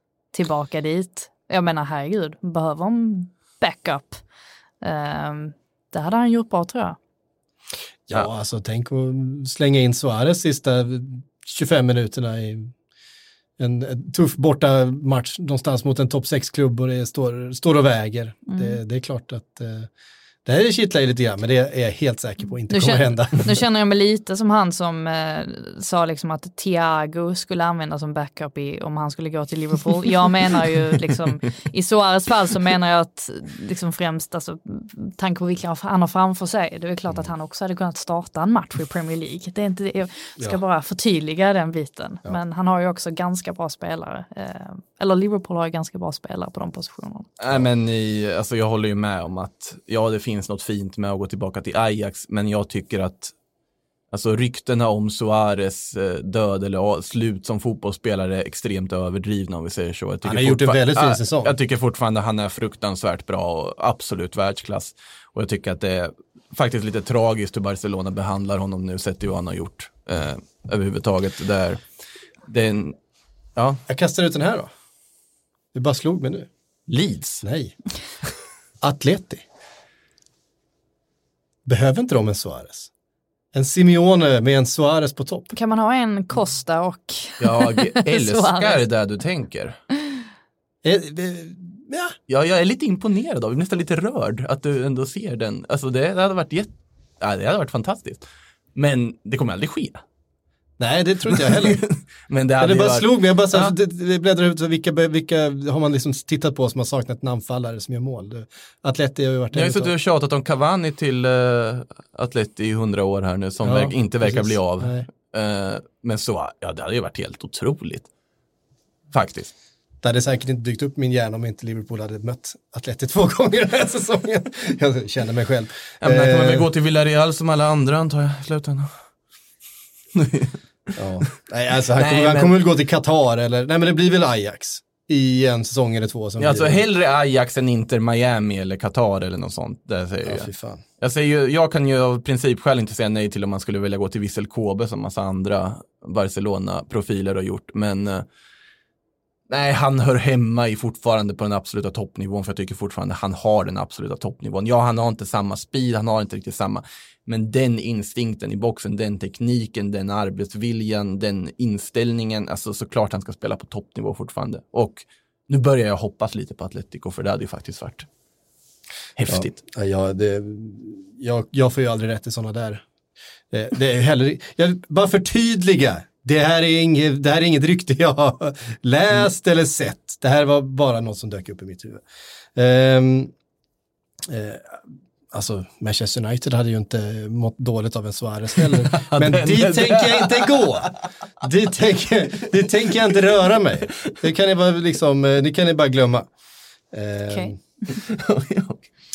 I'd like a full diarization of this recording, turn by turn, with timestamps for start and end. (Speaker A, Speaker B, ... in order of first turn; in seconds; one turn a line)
Speaker A: 0.3-4.2
Speaker A: 4.8-7.0
Speaker B: 8.1-12.7
Speaker B: 13.6-19.9
Speaker A: 18.5-18.8
Speaker B: 20.4-23.6
Speaker A: 22.7-47.3
Speaker C: 47.4-53.3
Speaker C: 54.1-71.8
Speaker B: 60.2-61.5
Speaker C: 72.5-73.0
Speaker C: 73.5-73.8
Speaker B: 73.9-74.7
Speaker B: 75.7-76.5
Speaker C: 76.9-77.4
Speaker B: 77.4-77.8
Speaker B: 78.8-79.4
Speaker B: 81.7-82.9
Speaker B: 83.5-85.5
Speaker A: 85.5-88.8
Speaker C: 87.4-89.8
Speaker B: 90.8-92.2
Speaker C: 92.3-100.0
Speaker B: 100.8-101.8
Speaker C: 101.3-103.7
Speaker B: 102.6-109.9
Speaker C: 109.5-118.1
Speaker B: 113.6-115.1
Speaker C: 119.1-119.5
Speaker B: 120.0-126.7
Speaker C: 126.0-128.9
Speaker C: 130.1-130.6
Speaker B: 131.0-136.8
Speaker C: 131.9-132.6
Speaker C: 136.4-140.5
Speaker B: 140.2-140.8
Speaker C: 141.0-148.2
Speaker C: 149.5-168.1
Speaker C: 169.2-169.6
Speaker B: 169.3-172.8
Speaker B: 173.5-182.0
Speaker B: 182.6-183.3
Speaker B: 184.2-190.9
Speaker C: 188.6-190.9
Speaker B: 191.4-196.3
Speaker B: 196.9-197.6
Speaker C: 197.9-198.8